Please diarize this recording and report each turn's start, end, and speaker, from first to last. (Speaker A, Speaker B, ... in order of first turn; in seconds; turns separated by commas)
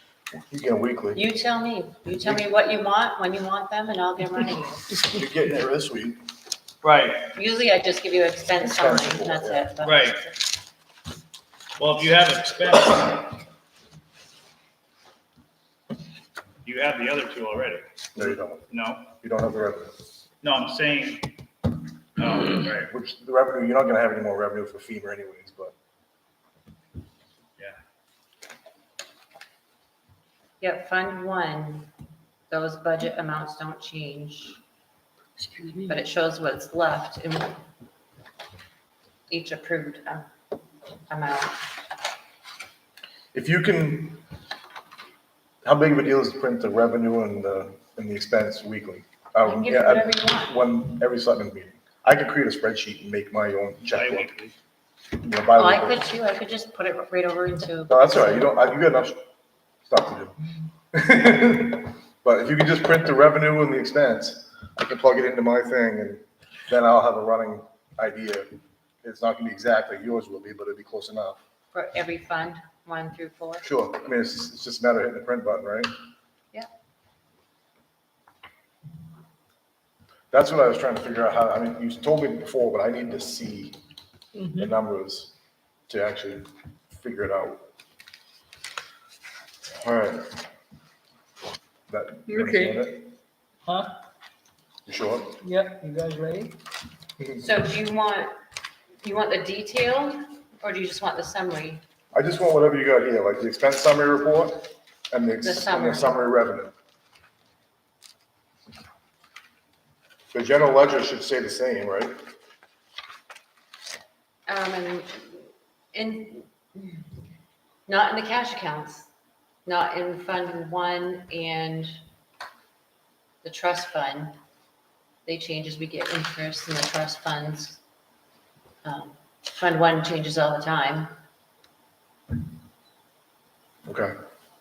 Speaker A: 0.4-1.2, Speaker B: 1.1-4.9, Speaker A: 4.9-6.2, Speaker C: 6.8-7.3, Speaker B: 7.3-10.4, Speaker A: 8.6-9.7, Speaker C: 9.8-10.2, Speaker C: 11.8-13.4, Speaker C: 16.6-19.1, Speaker A: 18.2-18.6, Speaker A: 19.2-19.9, Speaker C: 20.4-21.3, Speaker C: 22.2-22.9, Speaker A: 22.9-25.7, Speaker B: 30.6-31.9, Speaker B: 32.5-34.6, Speaker D: 35.4-36.0, Speaker B: 35.9-37.6, Speaker B: 39.3-40.3, Speaker B: 41.1-41.6, Speaker A: 43.3-44.2, Speaker A: 45.6-54.3, Speaker B: 49.4-50.5, Speaker C: 53.9-54.5, Speaker A: 55.2-56.0, Speaker B: 55.5-57.9, Speaker A: 57.9-59.2, Speaker A: 59.9-60.4, Speaker A: 60.9-68.5, Speaker A: 69.0-71.4, Speaker B: 71.7-73.7, Speaker A: 73.6-75.9, Speaker A: 80.3-83.8, Speaker D: 84.3-84.7, Speaker A: 84.5-85.3, Speaker A: 85.9-87.6, Speaker A: 89.8-90.4, Speaker A: 91.9-93.0, Speaker D: 92.3-92.8, Speaker D: 93.7-93.9, Speaker A: 94.9-95.4, Speaker D: 95.4-96.6, Speaker B: 97.4-98.3, Speaker B: 99.0-101.8, Speaker A: 102.1-106.7, Speaker B: 105.4-106.1, Speaker A: 110.3-112.2, Speaker B: 114.5-117.1, Speaker B: 117.9-119.1, Speaker B: 119.7-122.0, Speaker B: 123.4-124.4, Speaker B: 125.3-127.8, Speaker B: 128.8-131.1, Speaker A: 133.9-134.1